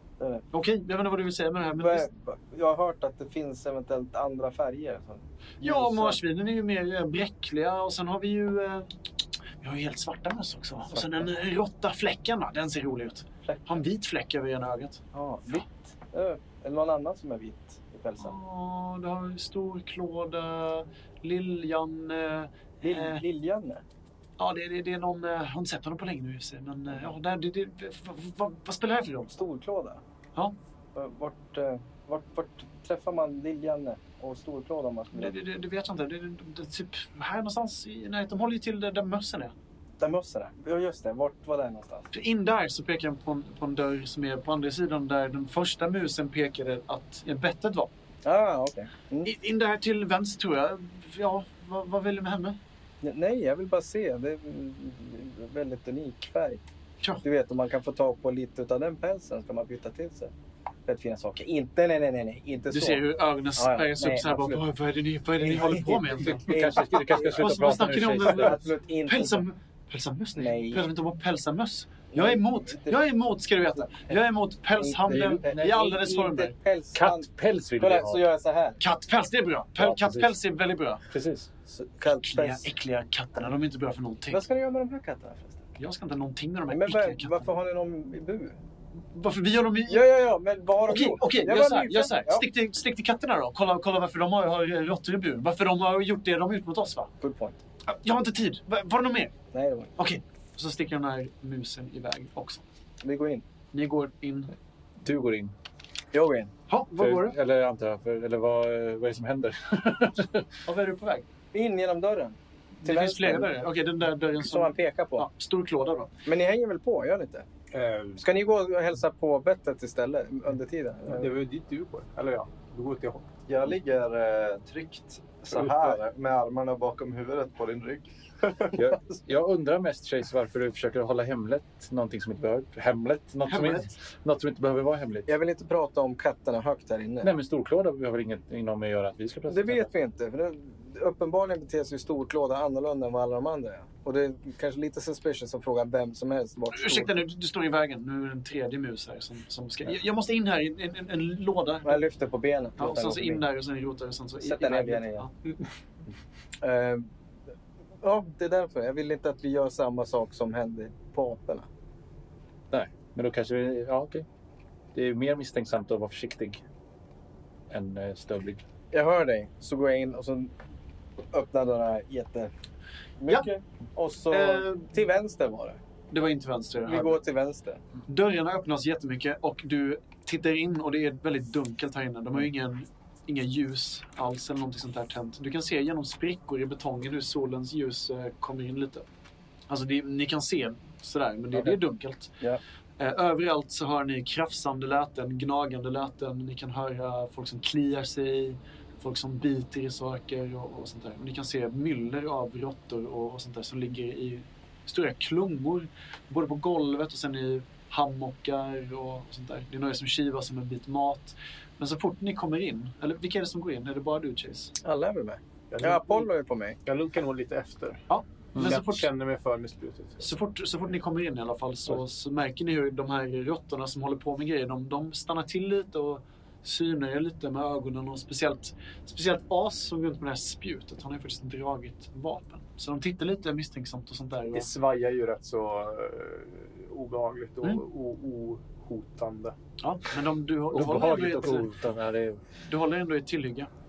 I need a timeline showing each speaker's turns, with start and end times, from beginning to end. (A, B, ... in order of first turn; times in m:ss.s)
0:00.2-0:00.4 A
0:00.5-0:02.1 B
0:01.8-0:06.2 A
0:05.6-0:09.0 B
0:09.6-0:15.0 B
0:10.9-0:11.3 A
0:13.4-0:13.8 A
0:15.1-0:18.4 A
0:18.2-0:23.2 B
0:22.8-0:23.8 A
0:24.4-0:29.3 B
0:29.3-0:30.0 A
0:31.0-0:35.4 A
0:35.1-0:39.5 B
0:40.0-0:42.1 A
0:42.1-0:47.9 B
0:48.2-0:49.3 A
0:49.2-0:52.6 B
0:53.0-0:56.6 A
0:57.2-1:00.3 A
1:00.9-1:04.6 A
1:02.7-1:06.5 B
1:05.4-1:07.5 A
1:06.2-1:08.6 C
1:07.2-1:16.6 B
1:08.2-1:09.4 A
1:10.4-1:10.9 A
1:12.1-1:13.0 A
1:13.8-1:17.3 A
1:15.1-1:15.8 C
1:16.9-1:18.2 C
1:17.8-1:18.8 A
1:18.8-1:21.0 B
1:19.8-1:20.4 C
1:21.1-1:21.5 C
1:21.7-1:22.6 A
1:22.2-1:24.4 B
1:24.3-1:25.8 A
1:25.8-1:27.5 B
1:26.7-1:28.6 A
1:29.1-1:30.1 B
1:29.9-1:32.5 A
1:30.8-1:37.1 B
1:37.2-1:37.6 A
1:37.9-1:39.3 B
1:39.5-1:39.9 A
1:40.0-1:42.6 B
1:43.0-1:43.4 A
1:43.7-1:44.5 B
1:45.0-1:45.6 C
1:46.1-1:46.5 A
1:46.7-1:47.4 B
1:47.0-1:50.5 C
1:50.6-1:51.3 B
1:51.5-1:53.5 A
1:52.8-1:56.1 B
1:54.4-1:55.3 A
1:56.3-1:57.5 A
1:57.7-1:58.2 D
1:58.2-2:01.3 A
2:01.1-2:03.4 D
2:03.5-2:08.7 E
2:05.5-2:05.8 D
2:08.8-2:15.3 C
2:13.5-2:13.9 B
2:15.3-2:17.3 A
2:17.2-2:19.9 C
2:19.5-2:27.2 A
2:26.7-2:32.0 B
2:31.8-2:33.5 A
2:32.8-2:35.3 B
2:34.4-2:35.3 A
2:36.6-2:37.1 A
2:38.0-2:41.7 A
2:42.7-2:44.2 C
2:45.0-2:46.6 C
2:47.7-2:48.6 C
2:48.9-2:50.5 A
2:51.3-2:52.5 A
2:53.2-2:55.8 A
2:54.3-2:55.0 B
2:56.1-2:57.2 B
2:56.8-2:57.8 A
2:58.1-3:09.0 B
3:09.7-3:12.4 B
3:13.0-3:34.8 B
3:34.8-3:36.8 A
3:35.7-3:36.3 D
3:36.9-3:38.0 D
3:38.1-3:39.1 B
3:38.6-3:38.8 C
3:38.6-3:40.3 D
3:40.2-3:54.7 B
3:54.5-3:59.6 D
3:59.8-4:01.8 B
4:00.7-4:02.4 C
4:02.6-4:03.7 B